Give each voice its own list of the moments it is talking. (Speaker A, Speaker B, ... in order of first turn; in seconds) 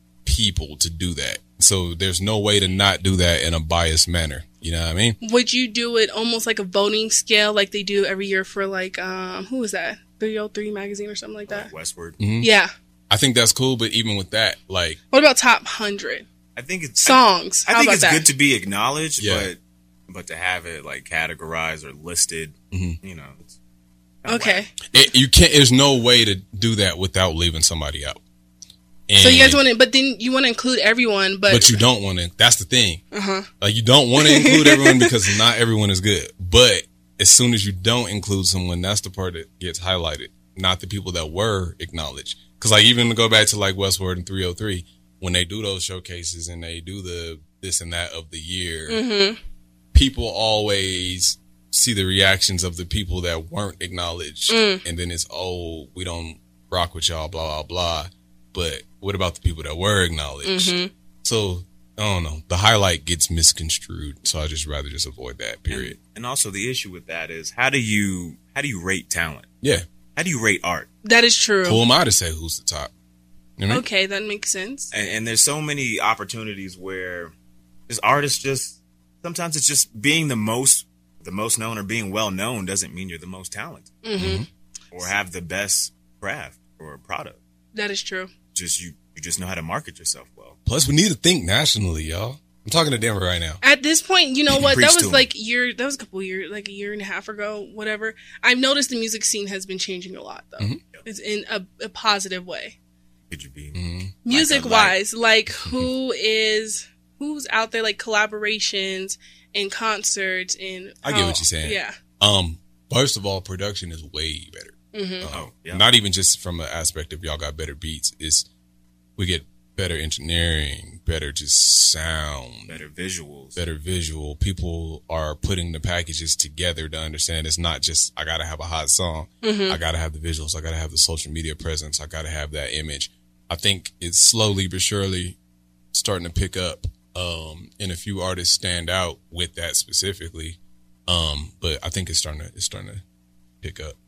Speaker A: 0.2-5.2, 12.2-12.5, 13.1-15.0, 19.2-19.5, 22.7-23.0, 24.9-28.2, 29.1-29.6, 31.5-33.0, 33.6-49.0, 49.9-66.0, 71.6-72.9, 73.6-73.8, 84.2-84.5, 90.7-93.6, 103.8-104.1, 111.0-118.5, 119.2-122.8, 123.6-135.4, 135.9-143.0, 143.6-144.0
Speaker B: 5.2-11.7, 12.4-12.7, 15.1-16.2, 17.0-18.3, 24.3-24.7, 29.2-31.8, 33.1-33.5, 34.2-35.1, 48.9-49.4, 54.5-54.8, 60.5-60.9, 71.0-71.8, 73.7-74.9, 84.0-84.5, 87.7-88.3, 93.6-102.8, 104.3-112.0, 114.9-115.3, 129.4-129.8
Speaker C: 11.5-12.2, 16.6-19.6, 20.1-23.6, 24.2-24.6, 65.7-69.5, 70.2-70.9, 74.9-77.3, 77.9-84.0, 84.9-87.4, 88.5-90.6, 94.6-95.3, 103.3-105.0, 115.3-115.9, 122.7-123.6